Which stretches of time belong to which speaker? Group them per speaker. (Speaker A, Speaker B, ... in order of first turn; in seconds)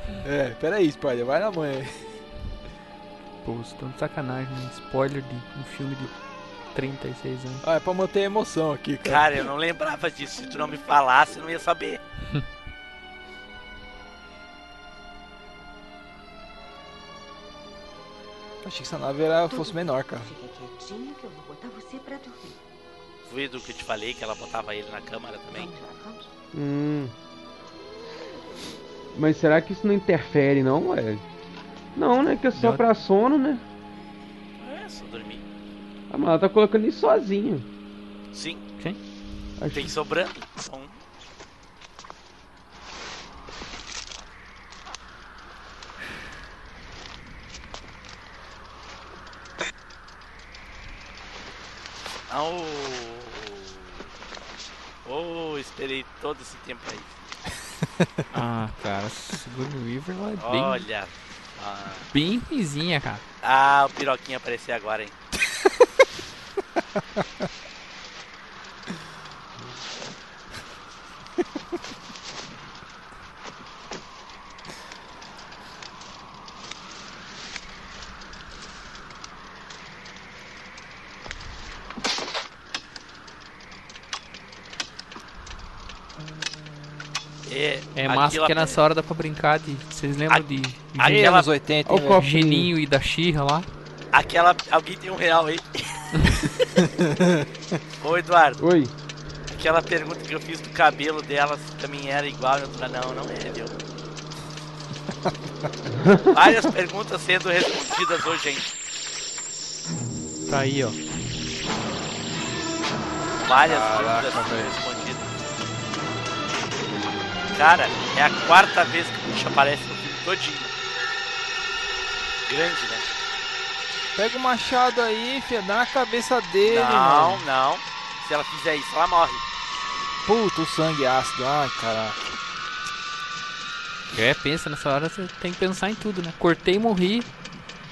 Speaker A: 0.2-1.9, 7.6-9.5, 18.6-20.3, 91.0-92.2, 97.0-97.4, 113.6-114.8, 124.2-127.4, 130.2-132.2
Speaker B: 3.4-6.1, 6.7-7.6, 32.5-32.8, 58.3-60.9, 62.1-63.2, 87.9-91.2, 92.1-93.7, 110.5-111.0, 134.1-137.3
Speaker C: 9.0-12.0, 23.2-25.7, 34.6-35.4, 38.3-38.6, 39.7-41.0, 52.3-54.1, 55.0-57.2, 60.4-62.1, 63.4-65.1, 87.5-88.8, 91.0-91.5, 94.1-96.1, 98.0-98.6, 99.5-103.7, 106.3-108.7, 113.4-115.3, 117.5-120.7, 122.5-123.1, 126.6-129.4
Speaker D: 19.5-22.6, 25.5-26.3
Speaker E: 26.5-27.1, 29.1-31.2, 31.9-33.6, 36.1-37.6, 39.6-39.9, 91.8-92.7, 98.6-98.9, 106.0-106.3